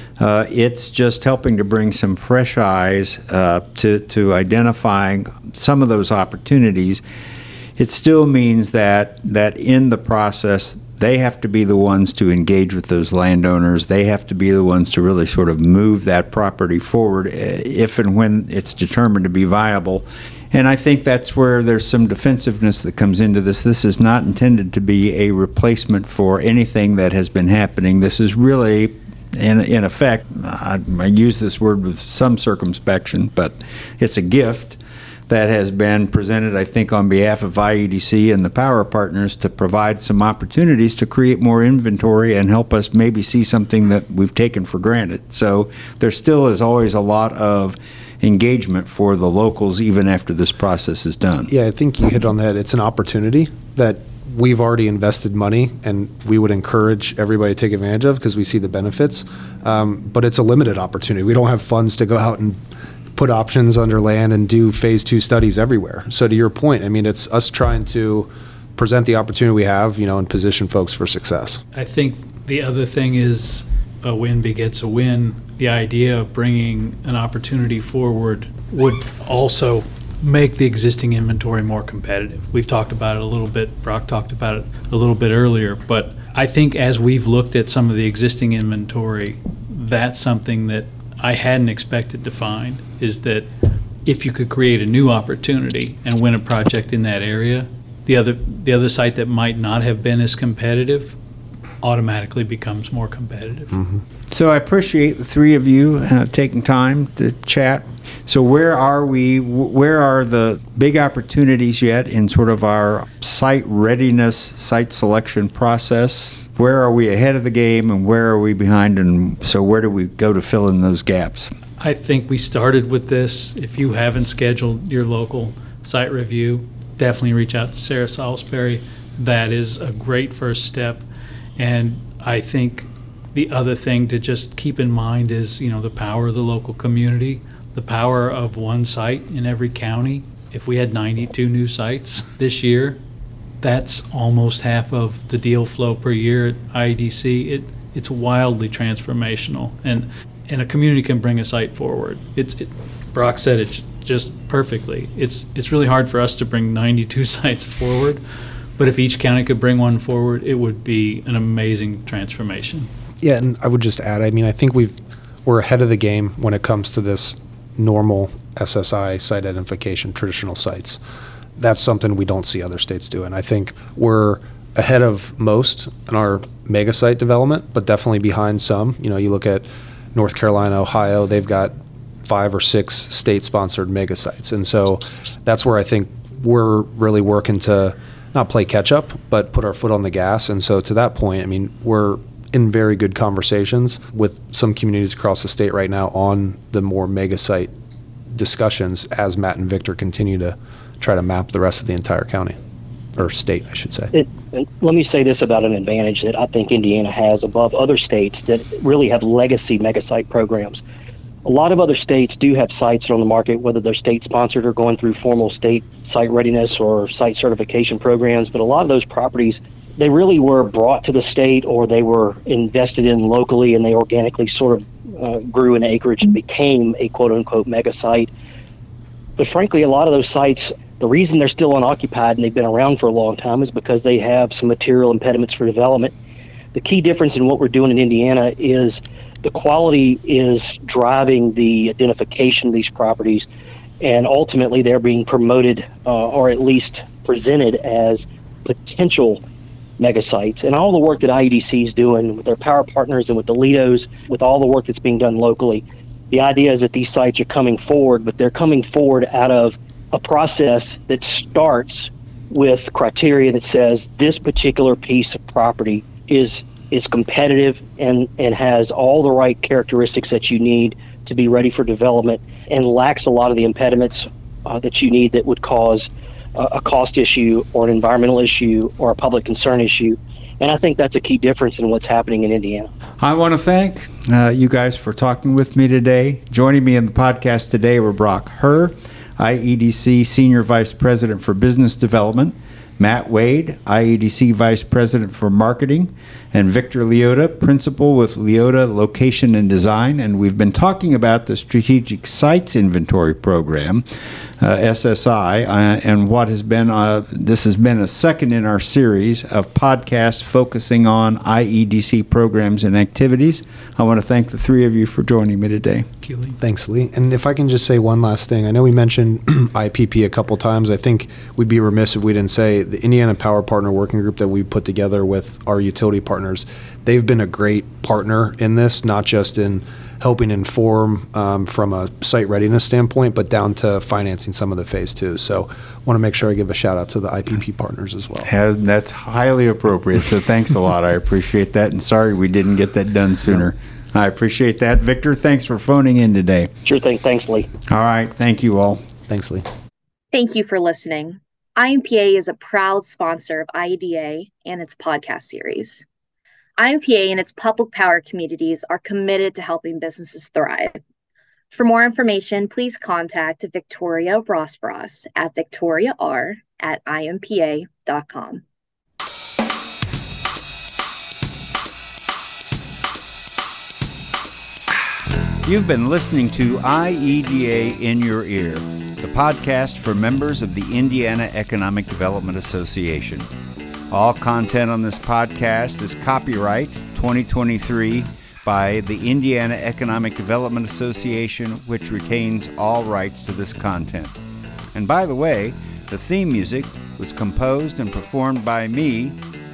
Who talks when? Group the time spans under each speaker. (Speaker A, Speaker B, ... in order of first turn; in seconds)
Speaker A: 0.2-7.0, 7.8-51.5, 104.3-121.5, 283.2-304.0, 304.6-316.1, 338.4-346.7, 347.8-349.0, 375.6-383.5, 384.1-394.4, 394.9-399.4
Speaker B: 51.5-62.6, 63.1-71.6, 163.2-171.0, 171.6-181.7, 182.2-197.7, 198.3-202.6, 203.2-204.1, 316.6-338.5, 349.3-349.6
Speaker C: 71.7-93.5, 94.0-101.2, 101.8-103.8, 121.8-131.0, 131.6-143.0, 143.6-158.2, 158.8-162.9, 316.2-316.6
Speaker D: 204.1-210.8, 211.4-228.3, 229.4-236.1, 236.7-243.5, 244.0-249.4, 250.0-282.9, 346.8-347.7
Speaker E: 350.3-356.0, 356.8-361.0, 361.7-368.6